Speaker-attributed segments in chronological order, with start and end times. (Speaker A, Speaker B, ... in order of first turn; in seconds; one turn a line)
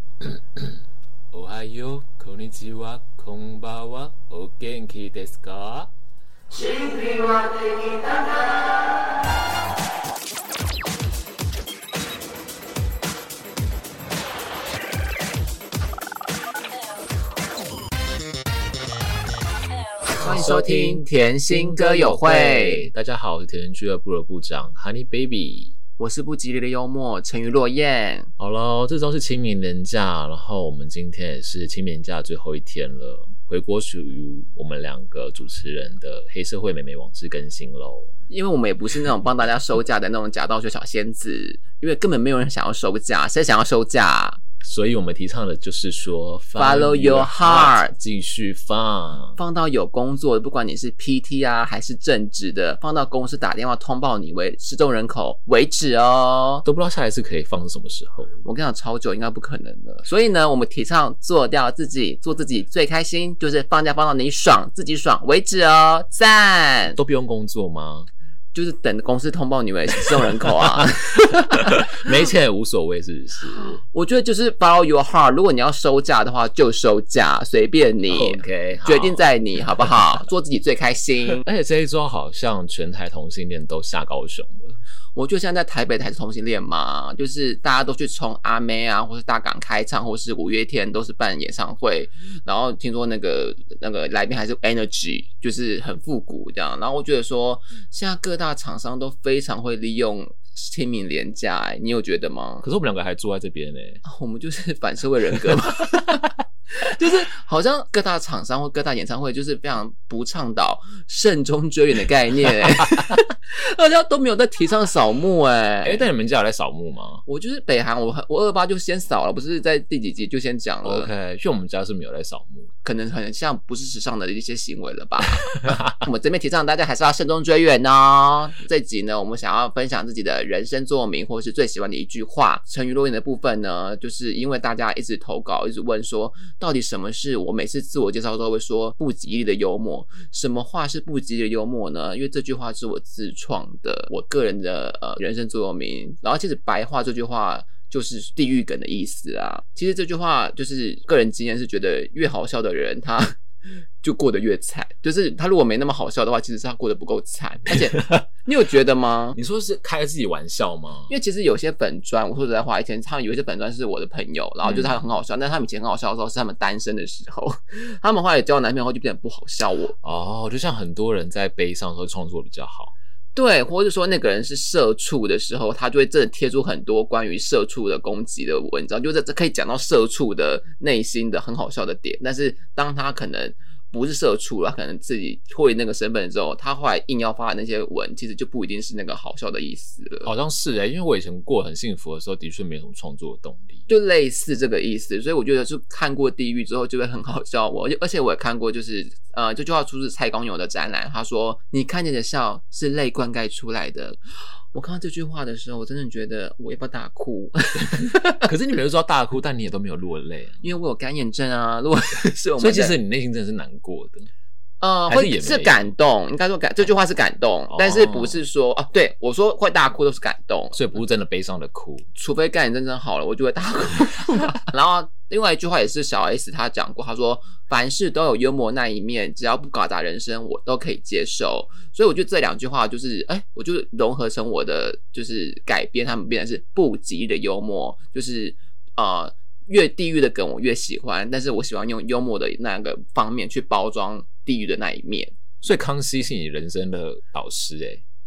Speaker A: 0.2-0.8
Speaker A: 1.3-5.9
Speaker B: 6.5-8.9
Speaker B: 20.2-22.9
Speaker A: 20.2-25.8
Speaker B: 26.0-28.3
Speaker A: 28.4-38.1
Speaker B: 38.3-44.4
Speaker A: 44.6-49.4
Speaker B: 46.6-47.9
Speaker B: 49.4-56.6
Speaker A: 56.6-58.4
Speaker B: 58.4-67.0
Speaker A: 66.9-68.1
Speaker B: 68.5-72.2
Speaker A: 71.5-73.8
Speaker B: 73.5-81.5
Speaker A: 78.1-79.3
Speaker A: 81.4-84.8
Speaker B: 85.2-102.7
Speaker A: 102.6-104.0
Speaker B: 104.0-116.1
Speaker A: 115.8-117.2
Speaker B: 117.3-121.1
Speaker A: 120.8-122.7
Speaker B: 122.8-153.4
Speaker B: 154.0-159.4
Speaker A: 159.3-161.1
Speaker B: 161.1-169.9
Speaker A: 164.6-165.0
Speaker A: 170.0-172.9
Speaker B: 173.4-190.3
Speaker A: 190.2-193.8
Speaker B: 193.9-204.2
Speaker B: 204.7-208.5
Speaker A: 208.4-210.7
Speaker B: 210.6-213.0
Speaker A: 212.6-214.3
Speaker B: 214.8-220.8
Speaker A: 215.1-215.9
Speaker A: 217.7-218.4
Speaker A: 220.7-222.1
Speaker B: 222.2-245.4
Speaker A: 245.6-248.0